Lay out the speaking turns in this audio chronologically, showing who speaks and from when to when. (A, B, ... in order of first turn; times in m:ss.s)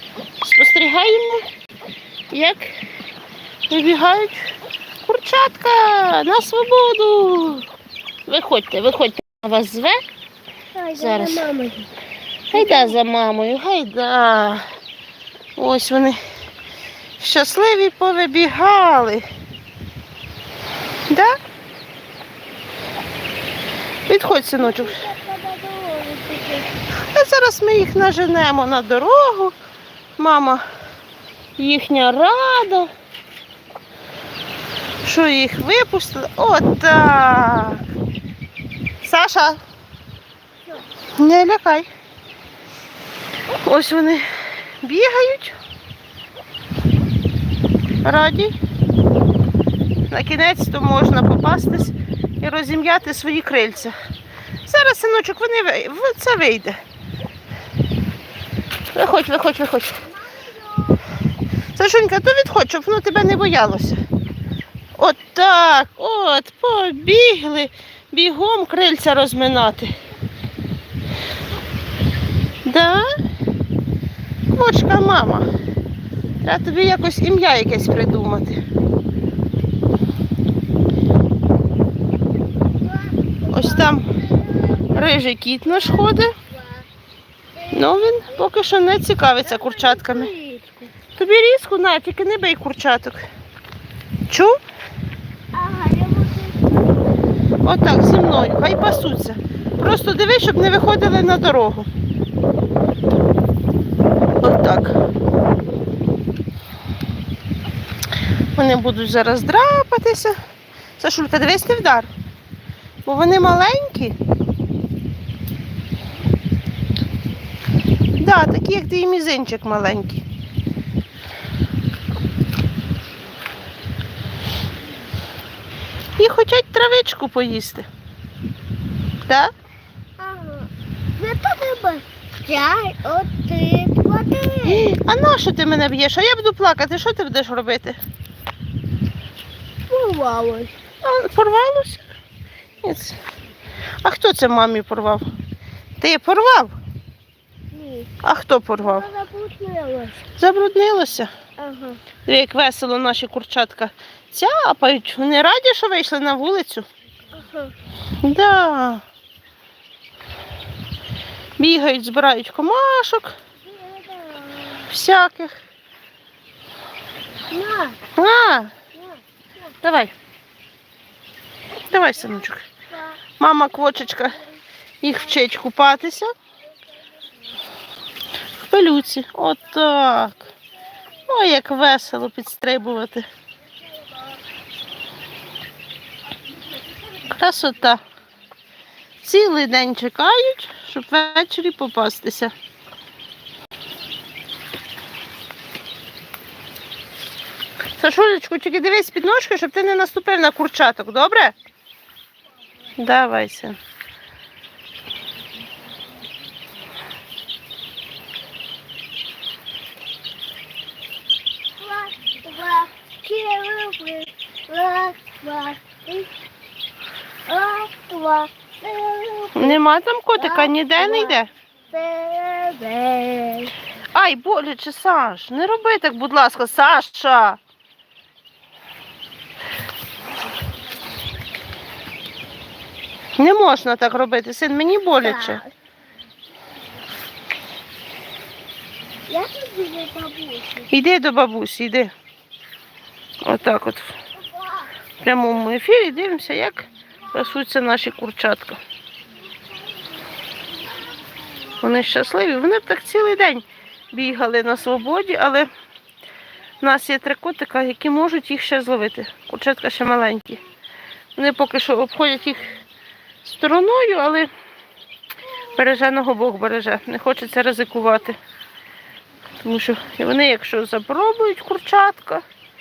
0:00.4-0:01.4 A
0:02.3-0:02.7 A
0:03.7-0:04.4 A
0:05.0-0:07.7 A
0:08.3-0:10.0 A
0:10.7-0:11.9 B
0:10.9-0:11.4 A
0:12.5-0:14.6 A
0:12.5-0:12.9 B
0:15.6-0:16.2 A
0:17.2-0:19.3 A
0:21.1-0:21.4 A
0:24.1-0:25.1 A
0:24.6-0:26.8 B
0:27.0-0:29.5 A
0:30.2-0:30.6 A
0:31.6-0:32.9 A
0:35.0-0:37.8 A
0:39.0-0:39.6 A
0:41.2-0:41.9 A
0:43.5-0:44.3 A
0:44.8-0:45.6 A
0:48.0-0:48.5 A
0:50.1-0:54.0 A
0:54.6-0:56.8 A
0:58.9-1:00.0 A
1:00.3-1:01.0 B
1:01.7-1:04.0 A
1:05.0-1:09.9 A
1:12.6-1:13.0 A
1:14.5-1:15.5 A
1:16.4-1:18.6 A
1:22.8-1:26.9 B
1:23.5-1:24.1 A
1:24.9-1:26.3 A
1:27.5-1:28.5 B
1:27.7-1:30.3 A
1:29.4-1:30.9 B
1:31.2-1:33.3 A
1:34.3-1:34.6 A
1:35.5-1:36.9 B
1:37.6-1:41.9 A
1:44.4-1:45.0 A
1:48.5-1:50.4 A
1:51.0-1:52.1 A
1:53.0-1:54.2 A
1:58.1-2:00.2 A
2:06.2-2:07.9 A
2:09.3-2:09.5 A
2:10.2-2:15.0 B
2:14.6-2:18.0 A
2:19.9-2:20.8 B
2:21.0-2:22.1 A
2:22.8-2:23.2 A
2:24.0-2:25.2 A
2:26.0-2:26.7 A
2:27.7-2:28.1 B
2:28.2-2:29.1 A
2:28.8-2:30.2 B
2:30.4-2:31.3 A
2:31.6-2:32.0 B
2:32.2-2:36.9 A
2:37.4-2:37.7 B
2:38.2-2:39.0 A
2:41.6-2:43.4 A
2:43.7-2:44.9 B
2:44.9-2:45.6 A
2:47.5-2:48.0 B
2:48.2-2:48.7 A
2:49.8-2:50.1 A
2:51.8-2:52.6 A
2:52.9-2:53.2 B
2:53.4-2:54.4 A
2:55.0-2:56.3 A
2:58.6-3:00.5 A
3:01.3-3:03.3 A
3:07.2-3:08.0 A
3:09.2-3:12.5 A
3:18.0-3:21.5 A
3:23.0-3:23.8 A
3:31.8-3:36.3 B
3:37.5-3:39.8 B
3:39.5-3:41.5 A
3:40.4-3:41.4 B
3:41.9-3:43.7 B
3:44.1-3:47.6 A
3:53.4-3:55.6 A
3:55.2-3:55.7 B
3:59.3-4:00.9 B
4:00.9-4:02.1 A
4:03.4-4:04.1 A
4:05.2-4:08.8 A
4:11.8-4:15.7 A
4:16.8-4:20.6 A
4:21.4-4:22.8 A
4:23.4-4:24.5 A
4:25.7-4:28.4 A
4:29.6-4:32.4 A